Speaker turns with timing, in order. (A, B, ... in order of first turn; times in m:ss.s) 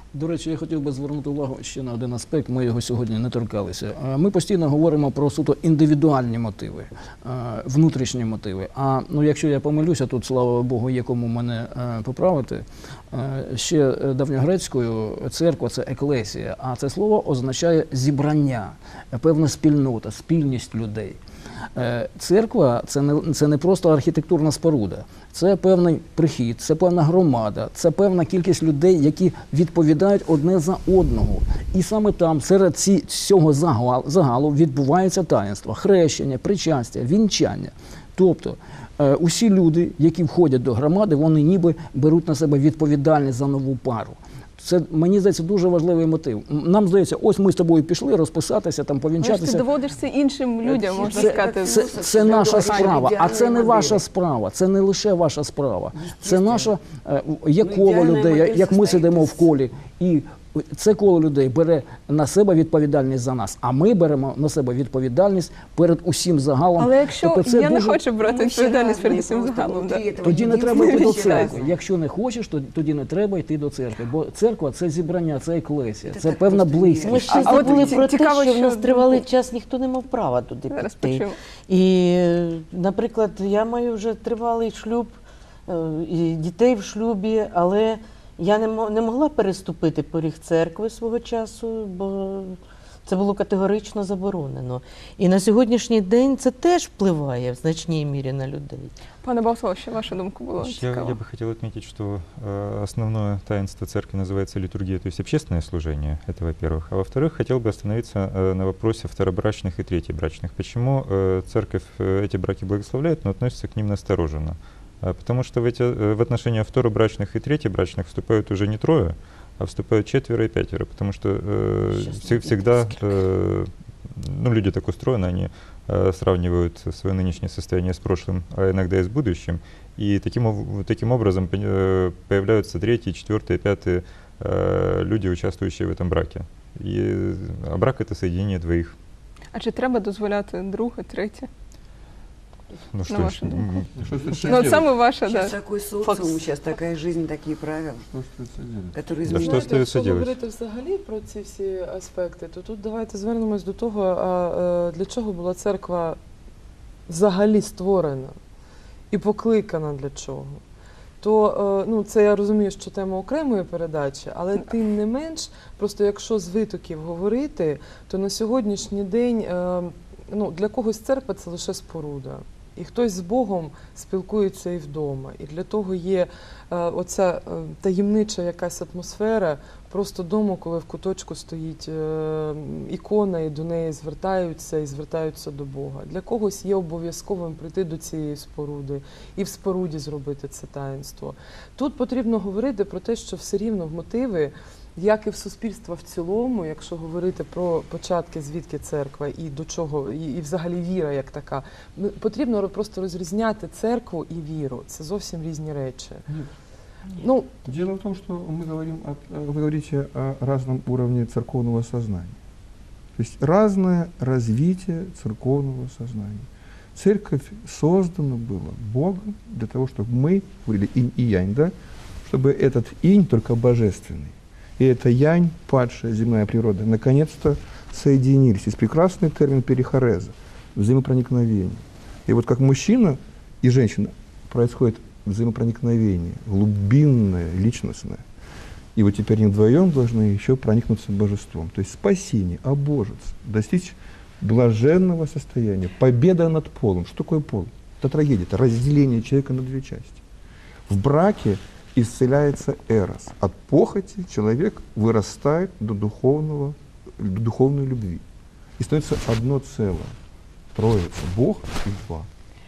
0:00.1-0:21.2 A
0:21.8-0:49.7 A
0:49.2-0:53.0 B
0:50.6-0:54.0 C
0:51.0-1:08.0 A
0:55.9-0:56.8 C
0:57.6-0:59.5 C
1:06.8-1:11.6 B
1:08.2-1:11.8 C
1:10.2-1:17.4 A
1:16.0-1:18.0 C
1:17.0-1:38.9 D
1:17.3-1:19.2 B
1:20.7-1:21.4 B
1:39.2-1:41.2 B
1:40.6-2:19.0 E
2:01.9-2:03.2 D
2:19.5-2:21.5 B
2:22.9-2:23.9 E
2:23.1-2:23.9 B
2:24.0-2:24.9 F
2:24.4-2:25.5 B
2:25.2-2:28.0 C
2:28.1-2:29.0 F
2:28.9-2:29.8 C
2:29.3-2:30.4 E
2:29.3-2:36.2 G
2:37.1-2:38.4 G
2:39.1-2:40.6 G
2:41.2-3:26.3 G
3:27.2-3:27.5 G
3:27.6-3:32.4 F
3:33.2-3:41.7 F
3:42.2-3:58.2 F
3:59.0-4:10.2 F
4:10.9-4:18.2 F
4:18.8-4:20.1 F
4:20.7-4:22.3 F